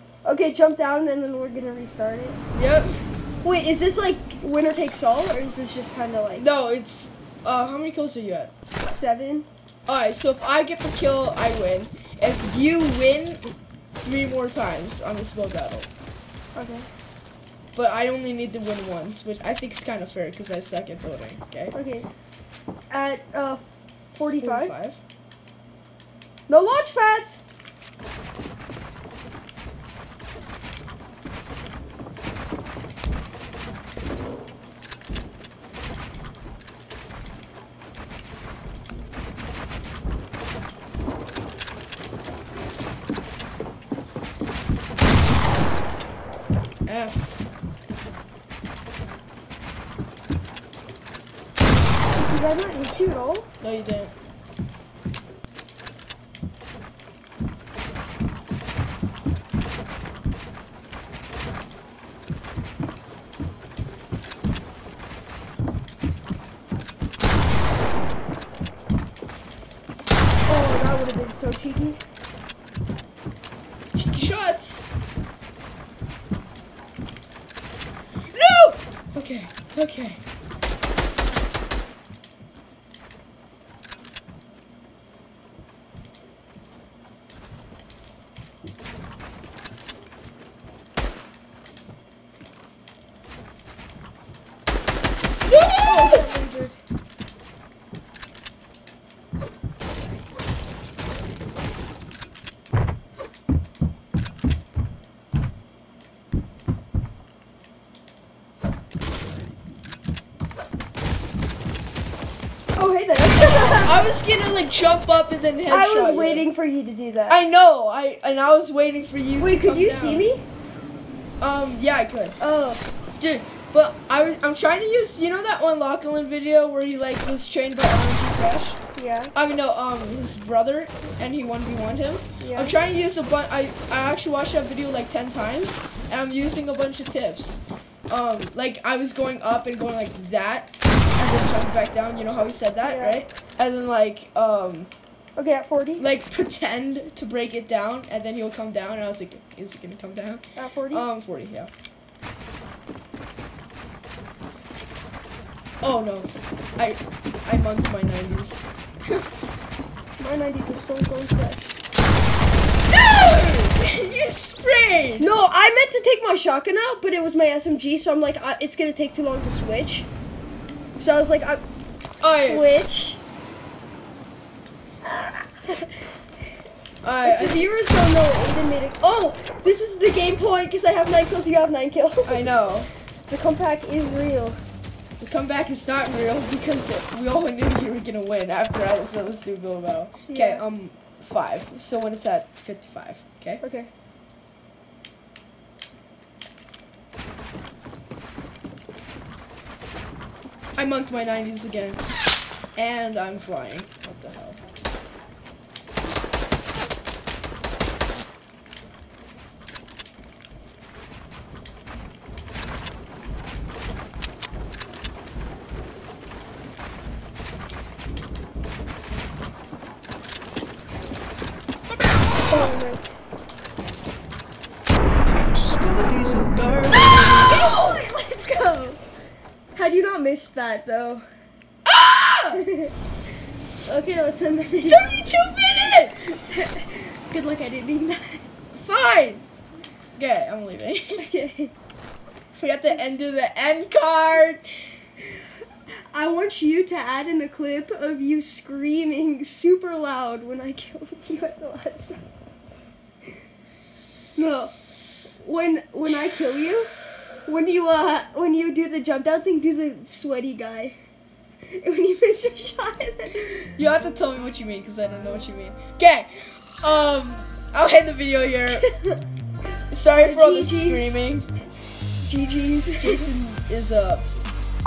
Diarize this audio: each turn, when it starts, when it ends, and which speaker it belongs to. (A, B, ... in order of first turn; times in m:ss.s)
0:00.2-0:02.4 A
0:02.5-0:03.0 B
0:03.4-0:06.4 A
0:06.4-0:08.5 B
0:08.8-0:09.5 A
0:09.8-0:13.5 B
0:14.0-0:15.9 B
0:16.5-0:16.9 A
0:17.7-0:21.7 B
0:21.7-0:22.1 A
0:22.9-0:24.8 A
0:24.4-0:25.0 B
0:26.5-0:27.4 A
0:46.8-0:47.4 B
0:52.1-0:53.5 A
0:53.6-0:54.1 B
1:10.5-1:12.0 A
1:13.9-1:14.9 B
1:18.3-1:20.2 B
1:35.4-1:36.2 B
1:35.8-1:36.8 A
1:52.8-1:54.1 A
1:53.3-1:56.4 B
1:55.7-1:57.4 A
1:57.3-2:00.2 B
1:59.4-2:00.4 A
2:01.4-2:02.4 B
2:02.4-2:02.8 A
2:03.2-2:08.8 B
2:08.9-2:09.3 A
2:09.3-2:24.9 B
2:12.4-2:12.8 A
2:22.8-2:23.2 A
2:25.4-2:26.0 A
2:26.0-2:31.7 B
2:30.6-2:31.0 A
2:35.8-2:39.3 B
2:40.2-2:41.7 A
2:42.9-2:45.3 B
2:45.2-2:50.1 A
2:51.0-2:51.6 A
2:52.2-2:52.7 B
2:52.4-2:53.2 A
2:55.0-2:56.1 A
2:57.0-2:57.7 B
2:57.2-3:02.5 A
3:02.2-3:02.9 B
3:03.3-3:04.6 A
3:05.2-3:13.6 B
3:10.3-3:10.6 A
3:13.6-3:13.9 A
3:20.8-3:22.0 B
3:22.8-3:24.6 B
3:42.5-3:43.2 A
3:47.2-3:49.0 A
3:47.4-3:48.0 B
3:49.8-3:51.2 A
3:51.8-3:52.6 B
3:52.5-3:52.9 A
3:53.8-3:55.2 A
3:54.8-3:56.3 B
3:56.3-3:58.4 A
3:58.7-3:59.4 B
4:00.2-4:01.2 B
4:01.2-4:01.7 A
4:02.5-4:04.6 B
4:06.1-4:12.2 A
4:14.4-4:14.7 A
4:15.4-4:16.9 A
4:17.4-4:21.0 A
4:21.7-4:23.8 A
4:23.8-4:28.8 B
4:28.7-4:29.2 A
4:29.9-4:31.5 B
4:30.1-4:31.2 A
4:32.2-4:33.3 A
4:33.0-4:34.3 B